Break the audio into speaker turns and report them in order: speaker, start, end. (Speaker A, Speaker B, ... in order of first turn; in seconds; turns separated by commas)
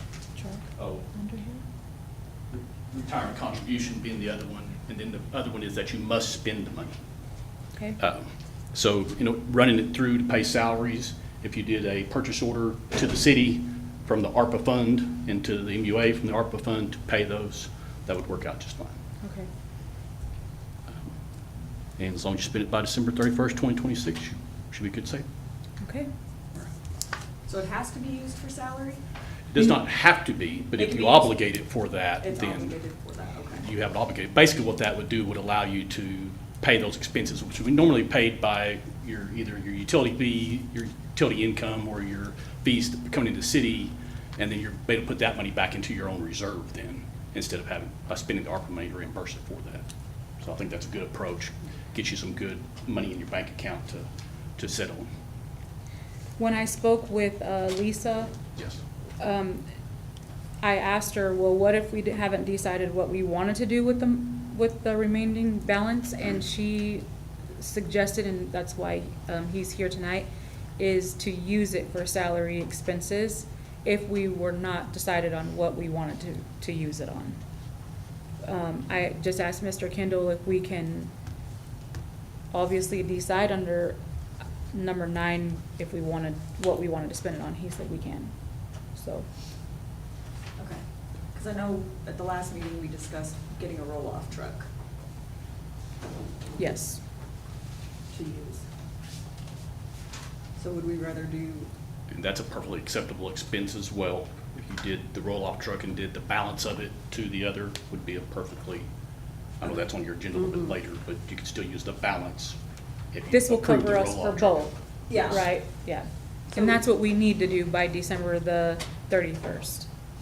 Speaker A: 0.3-1.6, Speaker B: 0.8-1.1, Speaker B: 2.5-7.0, Speaker B: 8.0-19.0, Speaker A: 19.2-19.5, Speaker B: 20.9-21.1, Speaker B: 22.0-25.2, Speaker A: 25.8-26.1, Speaker C: 27.5-29.0, Speaker B: 29.5-32.9, Speaker C: 30.8-31.3, Speaker C: 32.2-33.7, Speaker B: 33.6-49.8, Speaker B: 50.4-55.1, Speaker A: 56.4-58.3, Speaker A: 59.2-59.6, Speaker A: 60.6-67.0, Speaker A: 67.6-77.4, Speaker A: 78.4-81.1, Speaker A: 82.5-84.0, Speaker A: 84.7-89.3, Speaker C: 90.6-94.7, Speaker A: 96.6-97.0, Speaker C: 98.1-98.7, Speaker C: 100.6-101.7, Speaker B: 102.1-108.9, Speaker B: 109.6-112.6, Speaker B: 113.1-115.5, Speaker A: 113.3-119.9, Speaker C: 115.1-115.5